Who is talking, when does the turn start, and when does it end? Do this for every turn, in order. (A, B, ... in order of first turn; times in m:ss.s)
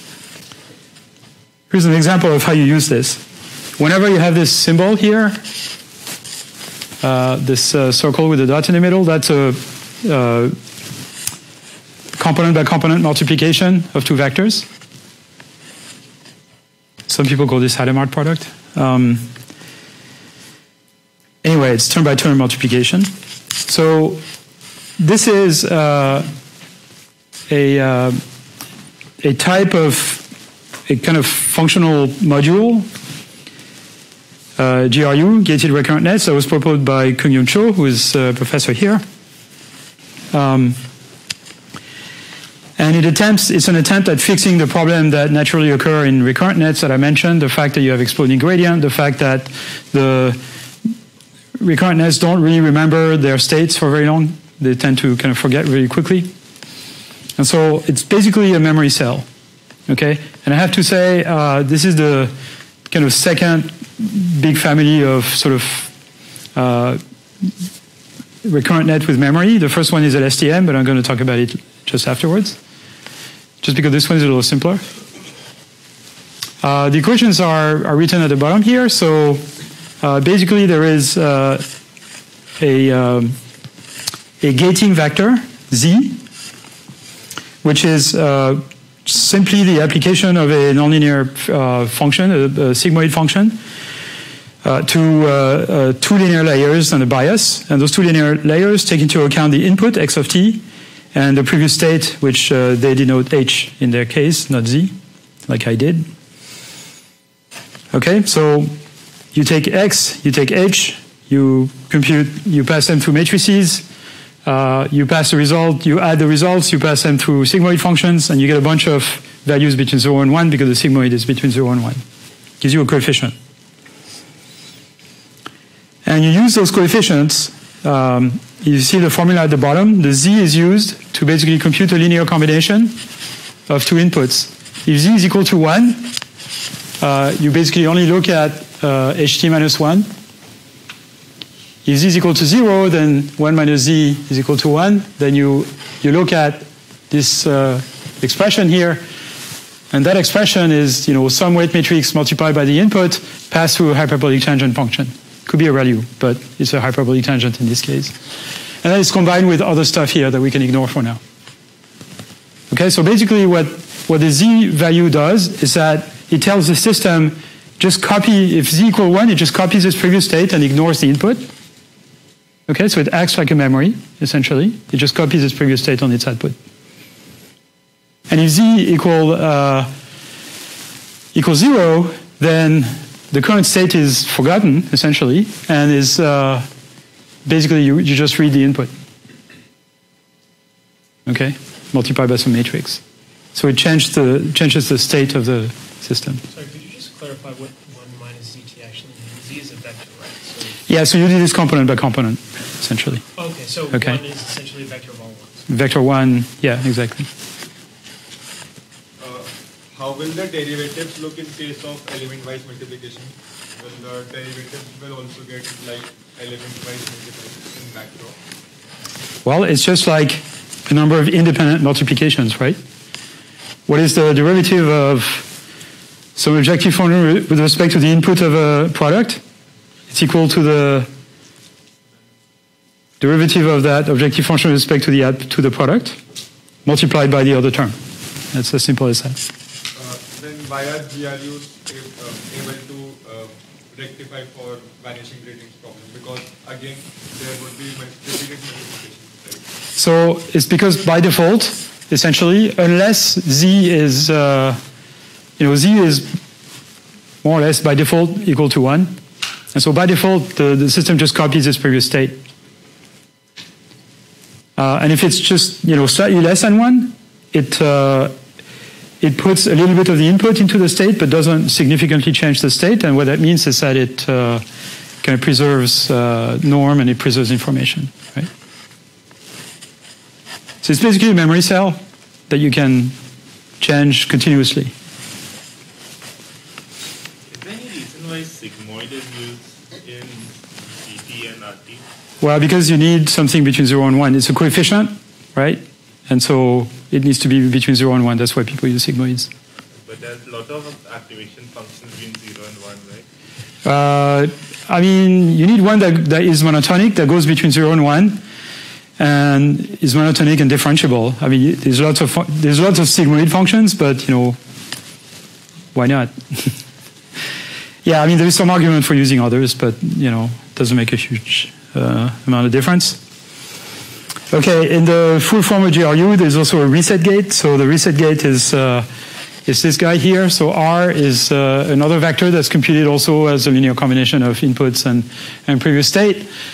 0:01.7-0:03.2 A
0:03.8-0:05.4 A
0:07.0-0:10.6 A
0:12.2-0:14.7 A
0:17.1-0:19.3 A
0:21.4-0:23.1 A
0:23.6-0:24.2 A
0:25.0-0:26.3 A
0:27.5-0:28.2 A
0:29.2-0:30.2 A
0:30.9-0:32.9 A
0:34.6-0:39.0 A
0:40.3-0:40.8 A
0:42.8-0:50.4 A
0:51.6-0:56.3 A
0:57.4-0:59.2 A
0:59.9-1:02.3 A
1:02.9-1:05.9 A
1:06.5-1:07.0 A
1:08.4-1:12.6 A
1:13.6-1:14.8 A
1:16.6-1:19.5 A
1:20.0-1:21.6 A
1:22.6-1:23.4 A
1:24.4-1:26.2 A
1:27.6-1:33.6 A
1:34.6-1:40.6 A
1:41.1-1:44.9 A
1:45.5-1:46.1 A
1:47.9-1:48.7 A
1:49.3-1:53.8 A
1:54.4-2:02.0 A
2:02.6-2:03.3 A
2:06.0-2:13.0 A
2:13.7-2:16.1 A
2:17.0-2:20.1 A
2:21.8-2:29.0 A
2:29.9-2:38.2 A
2:38.8-2:41.2 A
2:42.7-2:51.5 A
2:52.7-2:56.6 A
2:58.3-2:59.9 A
3:01.3-3:06.7 A
3:07.4-3:08.9 A
3:11.2-3:13.0 A
3:13.5-3:16.4 A
3:16.5-3:20.8 B
3:20.9-3:23.2 A
3:23.3-3:25.6 B
3:23.9-3:24.2 A
3:25.7-3:27.3 A
3:29.2-3:38.4 C
3:39.4-3:42.8 A
3:43.9-3:45.5 A
3:46.4-3:49.4 A
3:50.1-3:51.1 A
3:53.2-3:56.2 A
3:56.8-3:58.0 A
3:58.5-3:59.4 A
3:59.9-4:09.6 C
4:10.0-4:14.8 A
4:15.6-4:16.4 A
4:17.4-4:19.2 A
4:19.7-4:22.4 A
4:24.8-4:28.3 A
4:29.2-4:34.6 A
4:35.2-4:38.5 A
4:40.8-4:43.1 A
4:43.8-4:44.9 A
4:47.5-4:52.0 D
4:52.4-4:59.5 A
5:00.0-5:03.2 D
5:03.8-5:08.4 A
5:09.2-5:14.6 A
5:15.9-5:16.8 A
5:18.0-5:23.2 A
5:24.5-5:29.1 A
5:29.6-5:36.5 A